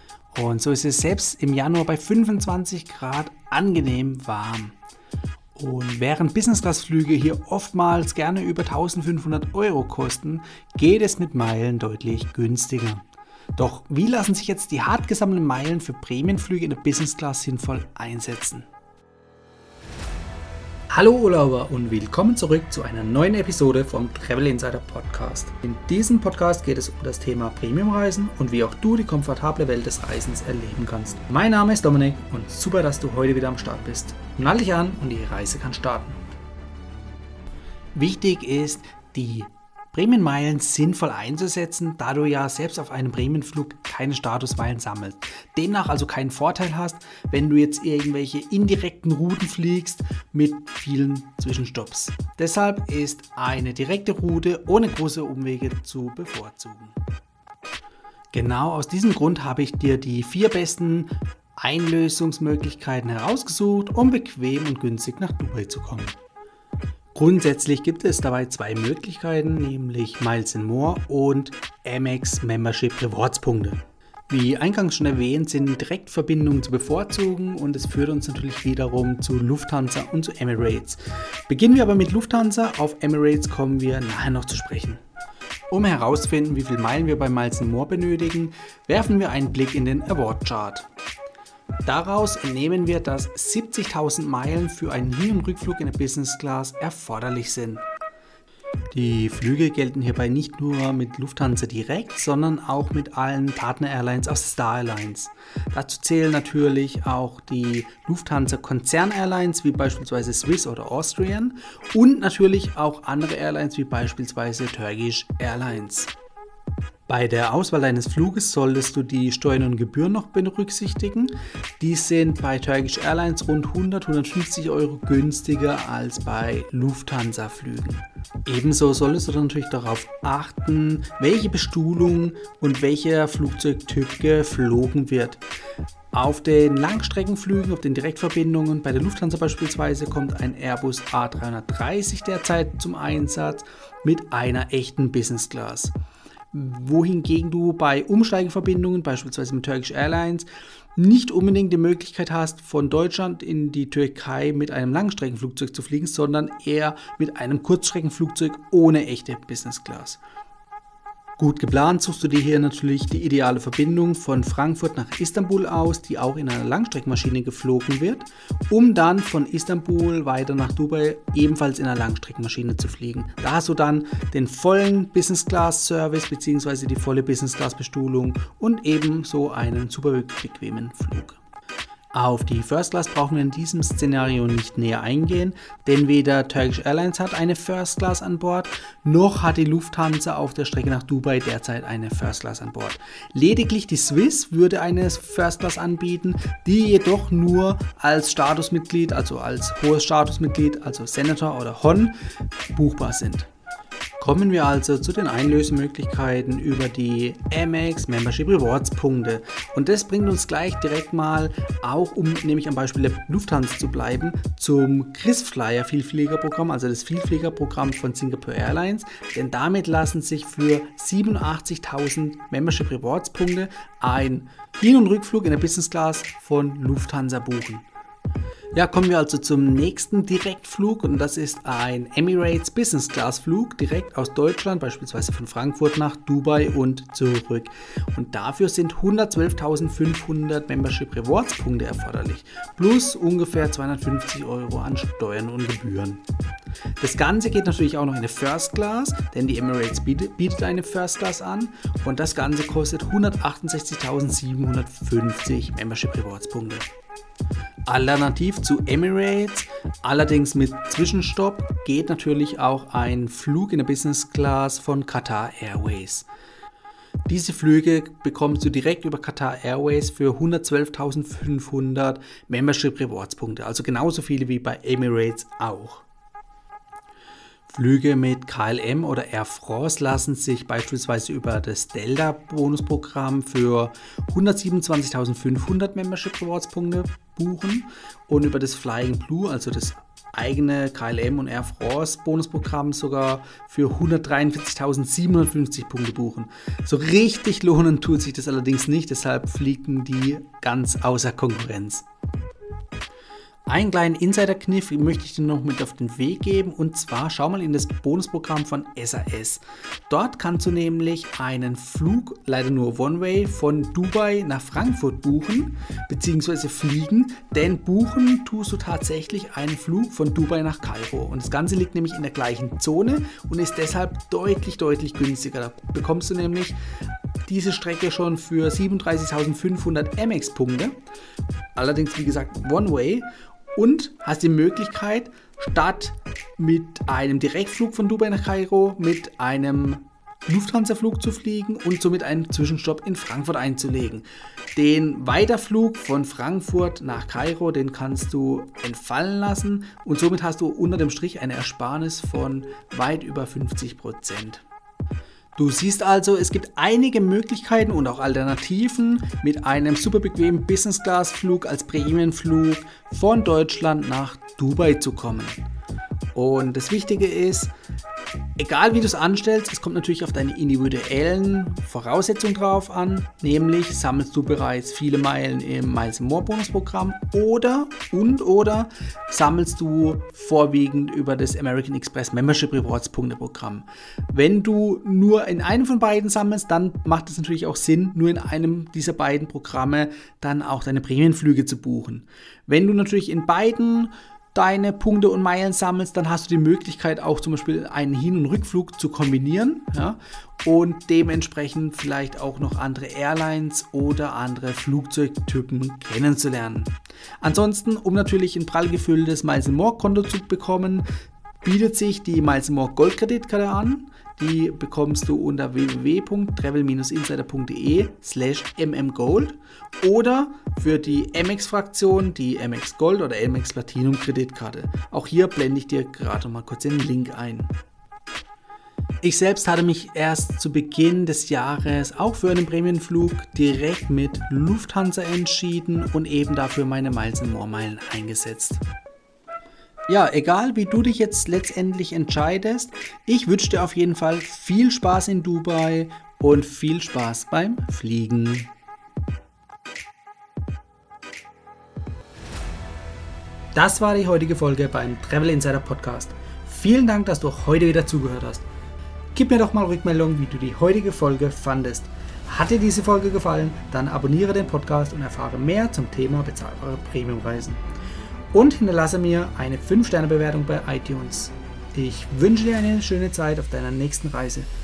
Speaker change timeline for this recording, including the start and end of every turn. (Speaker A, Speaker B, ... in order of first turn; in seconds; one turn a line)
Speaker A: 0.3-4.8
Speaker A: 5.5-13.0
Speaker A: 13.6-18.7
Speaker A: 20.9-36.2
Speaker A: 37.9-57.0
Speaker A: 58.3-66.2
Speaker A: 67.1-85.0
Speaker A: 85.7-90.9
Speaker A: 91.9-97.8
Speaker A: 98.9-116.1
Speaker A: 117.1-135.4
Speaker A: 136.1-145.9
Speaker A: 146.5-160.2
Speaker A: 161.4-181.4
Speaker A: 182.1-202.1
Speaker A: 202.7-203.5
Speaker A: 204.2-227.9
Speaker A: 228.7-246.2
Speaker A: 247.0-256.9
Speaker A: 257.9-266.3
Speaker A: 267.3-276.0
Speaker A: 277.7-302.1
Speaker A: 303.7-326.8
Speaker A: 327.4-330.9
Speaker A: 331.7-354.6
Speaker A: 355.6-365.6
Speaker A: 366.3-367.7
Speaker A: 368.6-411.0
Speaker A: 411.6-427.7
Speaker A: 429.2-438.8
Speaker A: 440.1-448.7
Speaker A: 453.7-458.6
Speaker A: 459.3-467.8
Speaker A: 468.5-474.7